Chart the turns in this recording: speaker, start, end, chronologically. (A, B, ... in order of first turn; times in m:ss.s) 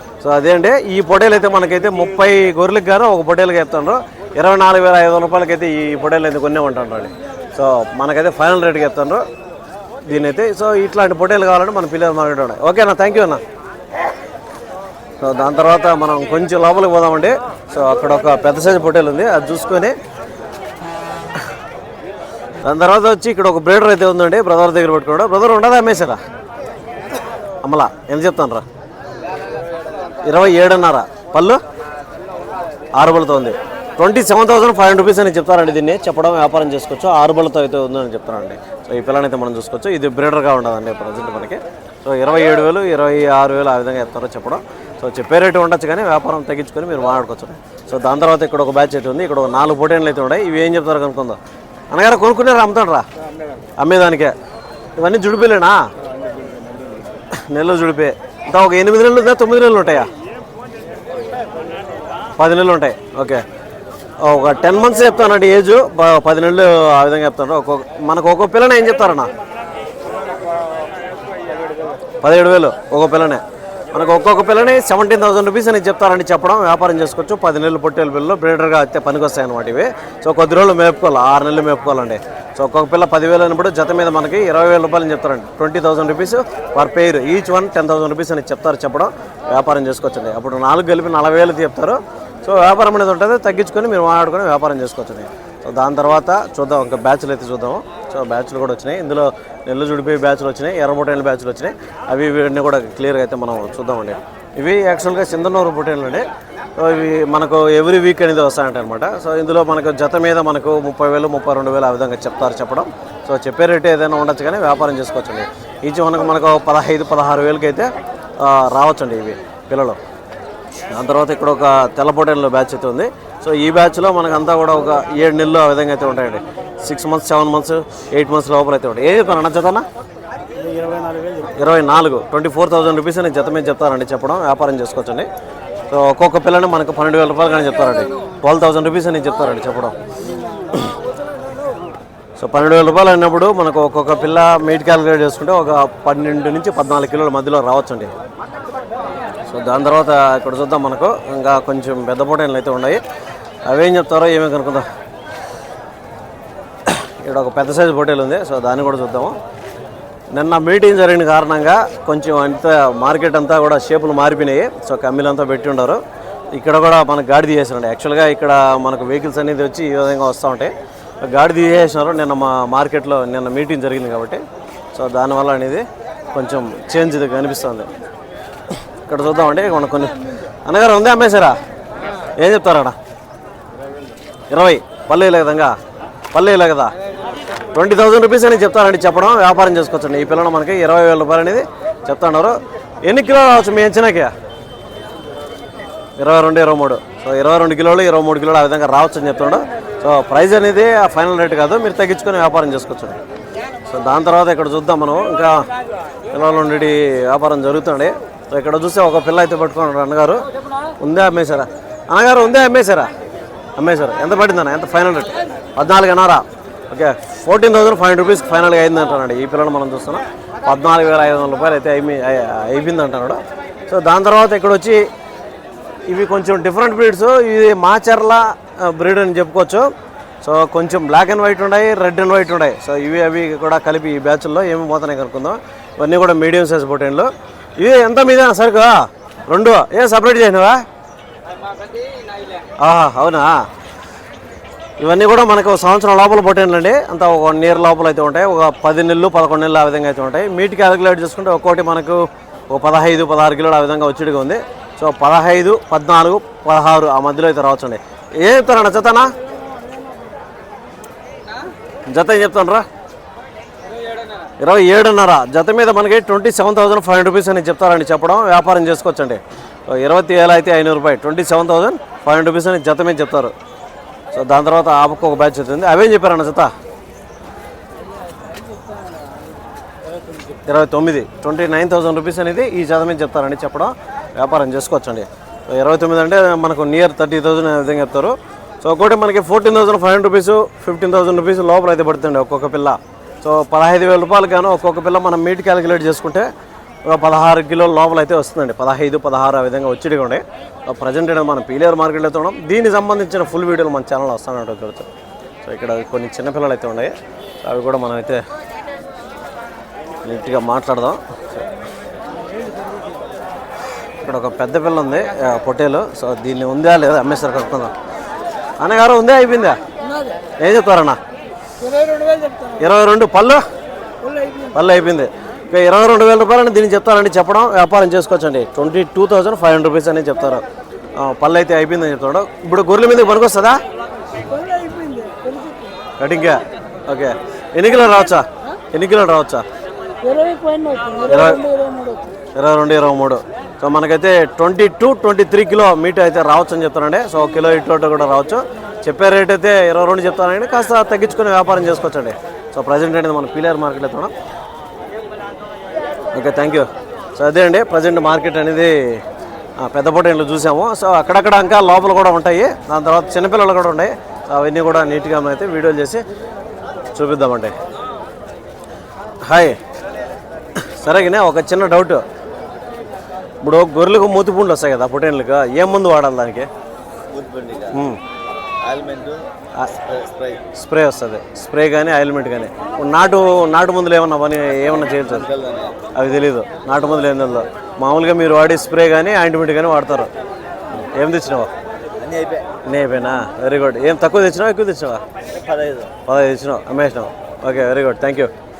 0:00.2-0:09.2 A
0:10.1-0:13.4 A
0:15.2-0:19.9 A
0:22.6-0:26.2 A
0:27.6-0:28.6 A
0:30.2-0:31.6 A
0:33.0-0:51.4 A
0:51.9-0:53.0 A
0:53.8-0:54.3 A
0:55.0-0:55.9 A
0:57.3-1:00.1 A
1:02.4-1:03.4 A
1:04.2-1:09.3 A
1:12.2-2:00.0 A
2:00.9-2:09.8 A
2:11.4-2:15.3 A
2:15.9-2:20.0 A
2:22.4-2:28.1 A
2:29.5-2:33.0 A
2:33.7-2:34.8 A
2:36.9-2:39.4 A
2:40.3-2:46.0 A
2:46.5-2:54.4 A
2:54.9-2:57.9 A
2:59.0-3:01.6 A
3:02.3-3:03.0 A
3:04.5-3:05.8 A
3:06.3-3:06.9 A
3:07.7-3:14.3 A
3:16.2-3:23.2 A
3:23.9-3:25.7 A
3:26.3-3:30.4 A
3:31.0-3:33.1 A
3:33.8-3:45.1 A
3:46.1-3:49.9 A
3:50.4-4:00.8 A
4:02.8-4:03.6 A
4:05.0-4:19.3 A
4:22.1-4:22.8 A
4:24.6-4:33.5 A
4:34.3-4:36.7 A
4:38.4-4:39.3 B
4:40.6-4:56.5 A
4:57.0-5:05.1 A
5:05.6-5:08.4 A
5:10.2-5:11.6 A
5:14.2-5:17.9 A
5:18.8-5:19.8 A
5:20.6-5:21.2 A
5:21.9-5:22.7 B
5:22.7-5:23.6 A
5:24.3-5:24.6 B
5:24.7-5:30.6 A
5:31.2-5:33.8 A
5:34.4-5:35.9 B
5:36.2-5:39.6 A
5:40.2-5:42.3 B
5:41.2-5:41.7 A
5:42.5-5:54.3 A
5:56.3-5:59.2 A
5:59.8-6:06.2 A
6:07.1-6:07.8 A
6:09.4-6:09.8 A
6:10.8-6:12.2 A
6:13.6-6:16.7 A
6:17.3-6:18.0 C
6:17.9-6:18.2 A
6:18.8-6:19.4 C
6:19.8-6:20.0 A
6:20.1-6:20.6 C
6:20.6-6:25.5 A
6:25.5-6:26.0 C
6:26.1-6:30.3 A
6:31.0-6:31.7 A
6:32.2-6:32.7 C
6:32.8-6:35.2 A
6:35.5-6:36.1 C
6:36.2-6:38.5 A